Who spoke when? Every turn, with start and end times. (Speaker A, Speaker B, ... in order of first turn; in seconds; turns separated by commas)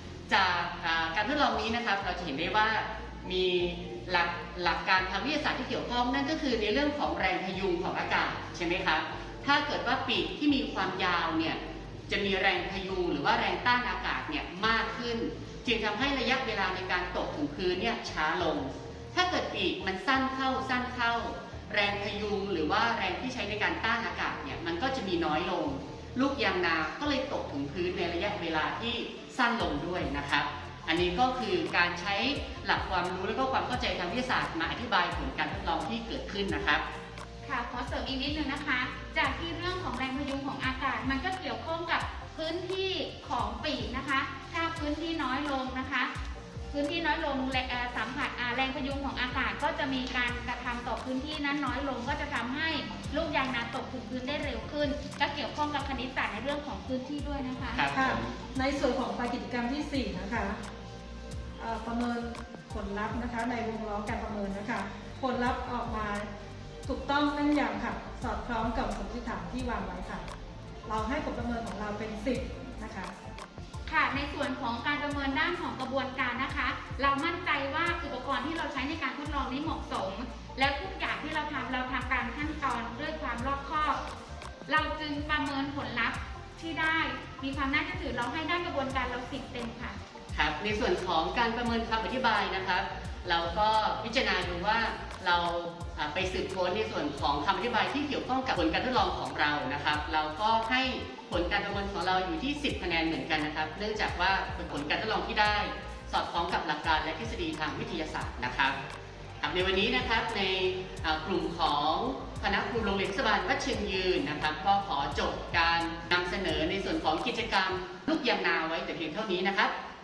Speaker A: 0.3-36.8, Speaker B: 37.4-46.1, Speaker B: 46.7-57.8, Speaker A: 57.7-58.3, Speaker C: 57.9-60.6, Speaker C: 61.6-66.3, Speaker C: 66.8-70.2, Speaker C: 70.8-73.1, Speaker B: 73.8-84.0, Speaker B: 84.7-90.0, Speaker A: 90.3-108.8, Speaker A: 109.4-119.7